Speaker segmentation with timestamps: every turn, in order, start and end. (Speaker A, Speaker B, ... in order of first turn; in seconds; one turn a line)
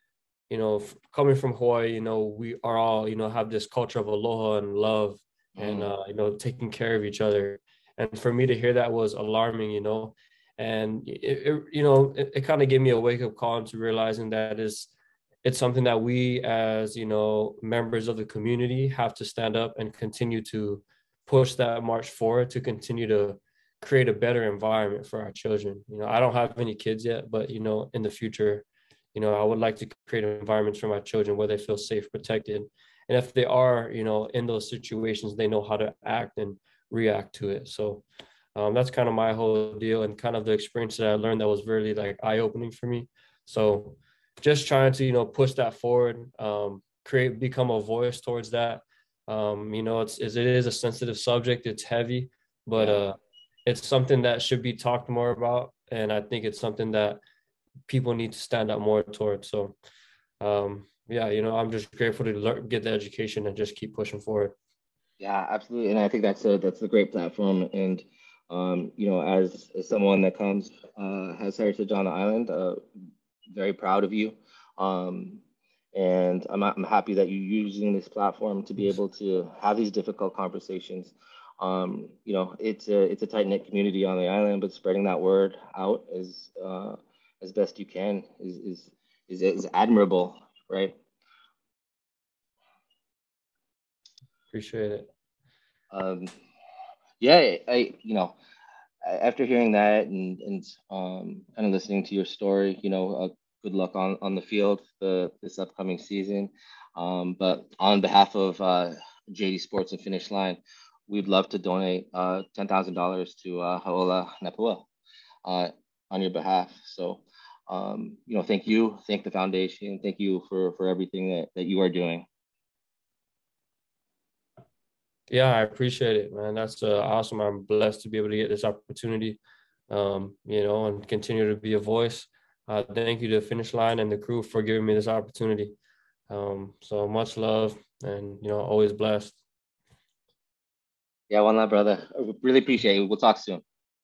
Speaker A: 0.5-14.9
Speaker B: 5.5-5.9
Speaker A: 15.4-57.2
Speaker B: 52.8-53.0
Speaker A: 57.9-59.8
Speaker A: 60.4-64.5
Speaker B: 65.2-72.8
Speaker B: 73.5-75.4
Speaker B: 75.9-91.0
Speaker A: 94.5-95.1
Speaker B: 95.9-96.3
Speaker B: 97.2-98.3
Speaker B: 99.0-114.9
Speaker B: 115.4-122.3
Speaker A: 125.3-129.4
Speaker A: 129.9-135.7
Speaker A: 136.3-139.3
Speaker B: 141.3-143.6